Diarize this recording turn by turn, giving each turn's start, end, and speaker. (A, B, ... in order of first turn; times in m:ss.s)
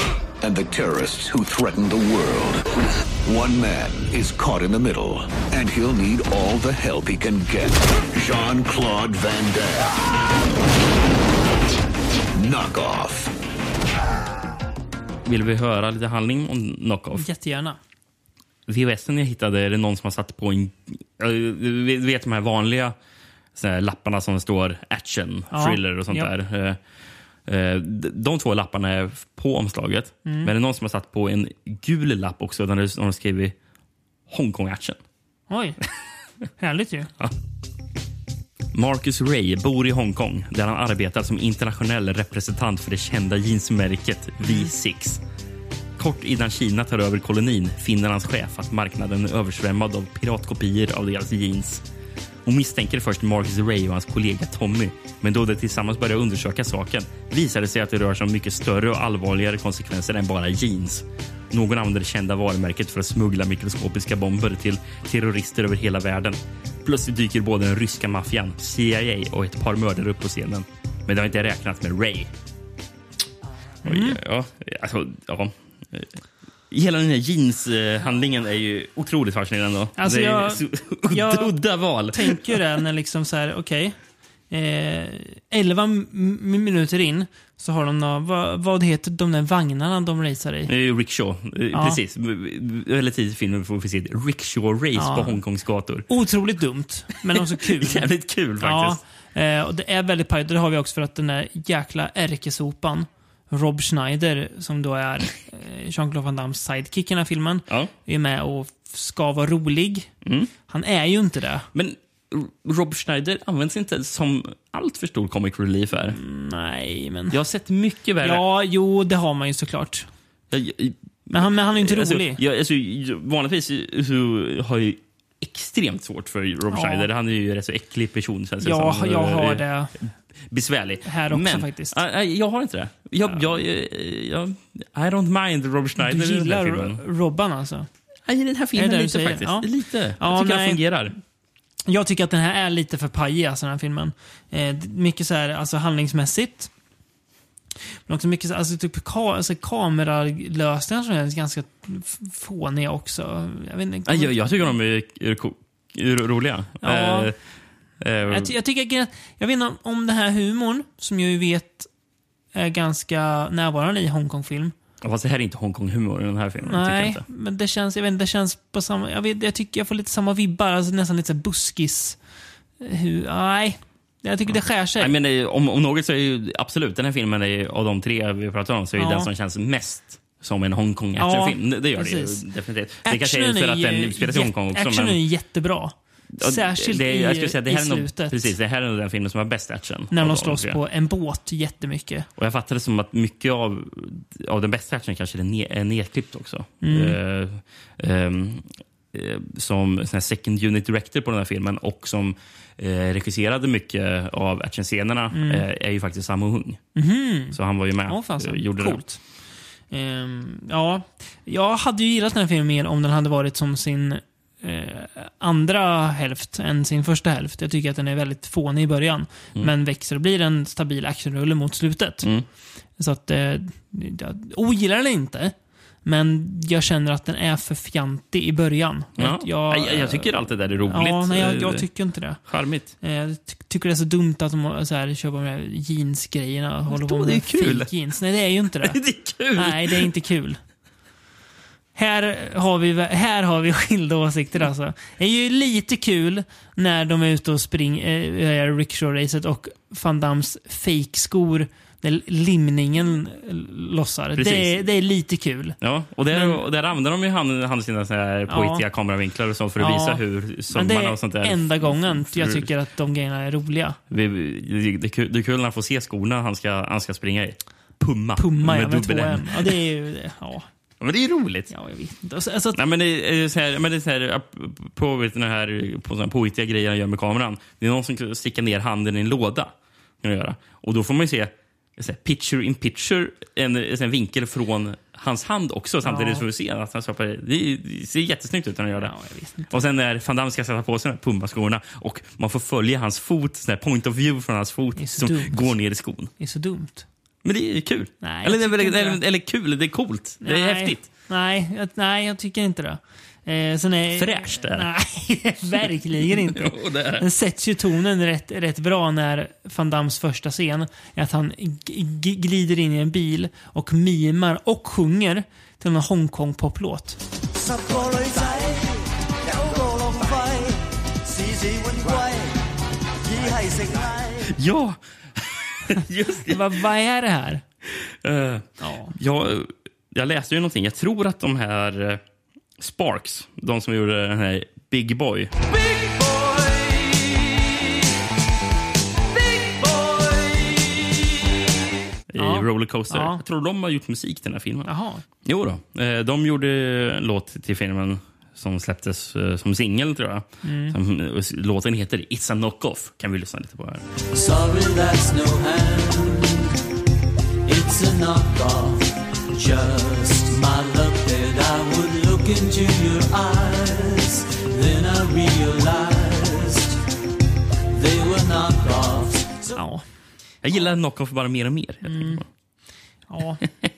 0:00.4-0:10.0 A
0:12.3-0:13.3 A
0:15.2-0:17.2 B
0:17.2-0:17.8 C
0:18.7-0:22.9 B
0:23.5-0:26.8 B
0:25.5-0:26.3 C
0:27.5-0:33.5 B
0:30.2-0:30.5 C
0:34.3-0:35.0 B
0:35.5-0:35.8 C
0:36.6-0:37.1 C
0:38.7-0:45.2 B
0:44.4-0:44.7 C
0:46.0-0:51.8 B
0:52.4-1:12.3 B
1:13.8-1:14.2 C
1:13.8-1:16.1 B
1:16.7-1:22.6 B
1:20.0-1:21.6 C
1:22.1-1:24.0 C
1:24.5-1:30.7 C
1:30.7-1:36.1 B
1:31.7-1:32.0 C
1:35.0-1:35.4 C
1:36.1-1:38.1 C
1:37.7-1:39.0 B
1:38.6-1:50.1 C
1:50.2-1:50.5 B
1:50.7-1:51.6 C
1:51.7-1:56.2 B
1:56.1-1:57.4 C
1:57.3-1:58.4 B
1:58.2-2:00.1 C
2:00.5-2:17.0 B
2:01.3-2:02.4 C
2:06.7-2:07.1 C
2:08.6-2:09.9 C
2:11.0-2:12.0 C
2:16.0-2:17.9 C
2:18.3-2:21.1 B
2:18.8-2:20.8 C
2:21.8-2:26.7 C
2:28.1-2:34.7 C
2:34.1-2:37.3 B
2:36.8-2:37.3 C
2:38.0-2:38.5 B
2:38.2-2:41.9 C
2:42.5-2:44.7 C
2:45.0-2:47.2 B
2:46.7-2:52.2 C
2:52.8-2:55.1 C
2:54.5-3:05.2 B
2:59.0-2:59.3 C
3:01.2-3:02.4 C
3:03.0-3:08.5 C
3:06.4-3:10.8 B
3:10.1-3:12.3 C
3:12.4-3:26.8 B
3:16.8-3:17.2 C
3:25.3-3:25.6 C
3:27.0-3:29.2 C
3:27.5-3:29.0 B
3:29.9-3:42.3 C
3:43.0-3:50.3 C
3:49.2-3:51.8 B
3:50.8-3:52.4 C
3:52.4-3:52.9 B
3:53.0-3:59.0 C
3:56.9-3:57.9 B
3:58.8-4:00.1 B
3:59.5-4:00.6 C
4:01.9-4:15.8 C
4:14.4-4:14.8 B
4:15.8-4:22.7 B
4:16.3-4:16.6 C
4:18.5-4:18.8 C
4:19.8-4:24.0 C
4:24.1-4:29.7 B
4:28.4-4:30.7 C
4:31.0-4:31.7 B
4:31.7-4:32.8 C
4:32.8-4:49.1 B
4:46.0-4:46.4 C
4:49.0-4:49.8 C
4:49.7-4:56.3 B
4:55.0-4:55.7 C
4:56.4-4:57.0 C
4:57.4-5:01.1 B
4:58.2-4:59.2 C
5:00.4-5:17.2 C
5:04.2-5:04.9 B
5:06.3-5:07.2 B
5:17.6-5:22.5 D
5:23.2-5:24.5 D
5:24.4-5:26.8 B
5:26.4-5:27.6 C
5:28.0-5:32.2 B
5:28.8-5:29.1 C
5:32.8-5:35.5 B
5:42.3-5:44.9 B
5:42.4-5:43.4 C
5:44.8-5:45.2 C
5:45.4-5:54.0 B
5:50.6-5:51.0 C
5:54.3-5:56.8 D
5:57.6-6:07.0 D
6:07.9-6:09.8 D
6:09.7-6:10.0 C
6:10.6-6:12.4 B
6:12.0-6:12.4 C
6:13.3-6:13.6 C